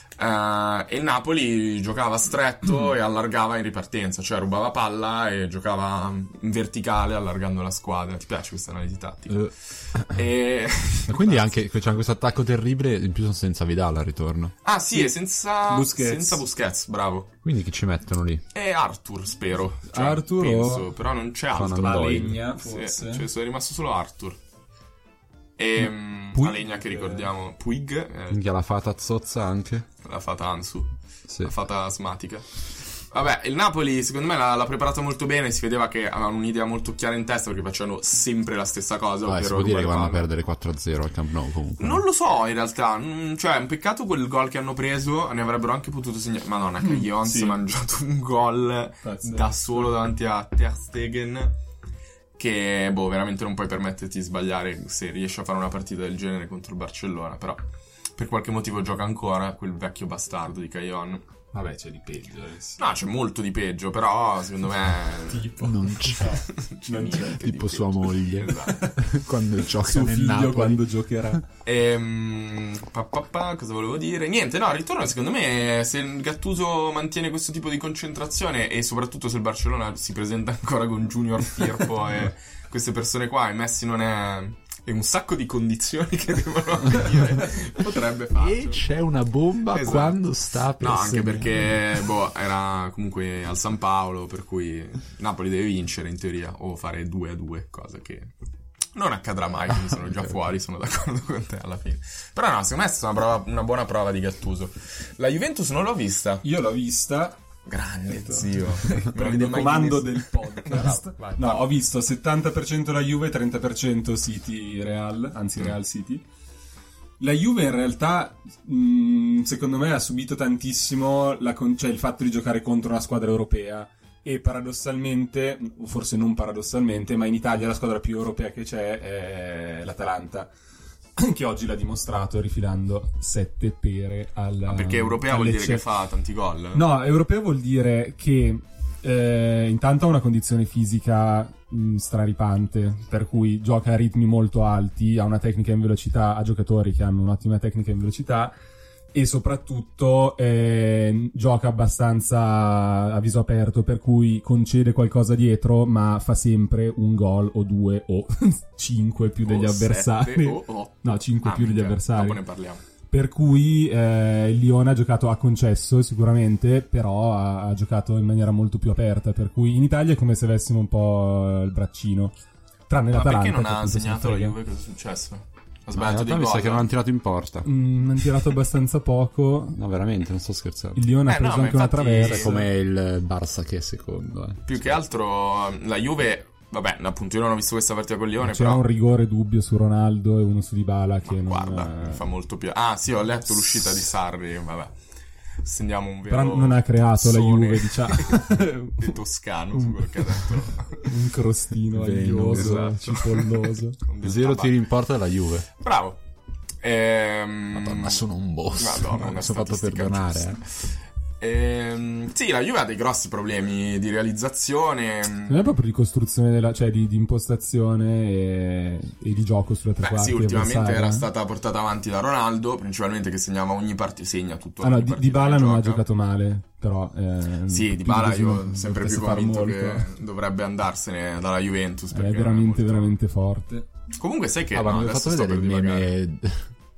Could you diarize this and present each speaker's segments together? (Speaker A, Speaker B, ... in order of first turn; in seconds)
Speaker A: 0.2-11.6, 14.6-17.3, 18.5-24.4, 25.6-28.4, 30.0-32.5, 33.1-40.3, 41.8-51.6, 52.4-57.6, 58.2-61.2, 62.8-68.8, 71.7-88.8, 89.7-90.2, 90.8-98.3, 99.0-106.4, 107.7-111.7, 134.7-136.8, 159.4-162.8, 173.1-176.8, 181.3-182.5, 184.7-188.8, 191.3-194.9, 195.6-201.1, 202.5-204.8, 205.8-206.2, 206.8-208.2, 208.8-210.6, 211.4-215.7, 220.0-226.0, 227.7-233.2, 234.2-236.1
Speaker B: 11.1-14.5, 17.4-18.4, 21.5-22.4, 28.3-29.9, 39.3-42.0, 65.6-66.4, 67.4-70.8, 88.4-91.7, 175.9-177.7, 179.8-181.0, 182.2-185.0, 201.9-202.9, 204.2-205.7, 207.7-210.6, 234.7-236.7
Speaker C: 14.9-16.4, 19.9-20.9, 21.7-23.3, 26.3-27.3, 46.8-47.6, 49.0-50.0, 61.5-62.8, 65.3-67.5, 69.8-71.4, 106.4-107.4, 108.1-116.2, 117.2-130.5, 131.2-135.8, 136.7-148.5, 149.1-162.4, 163.1-172.3, 172.9-174.6, 177.6-179.8, 181.0-182.7, 188.4-192.2, 196.3-199.2, 199.8-204.0, 215.5-221.3, 224.8-230.1, 232.1-233.9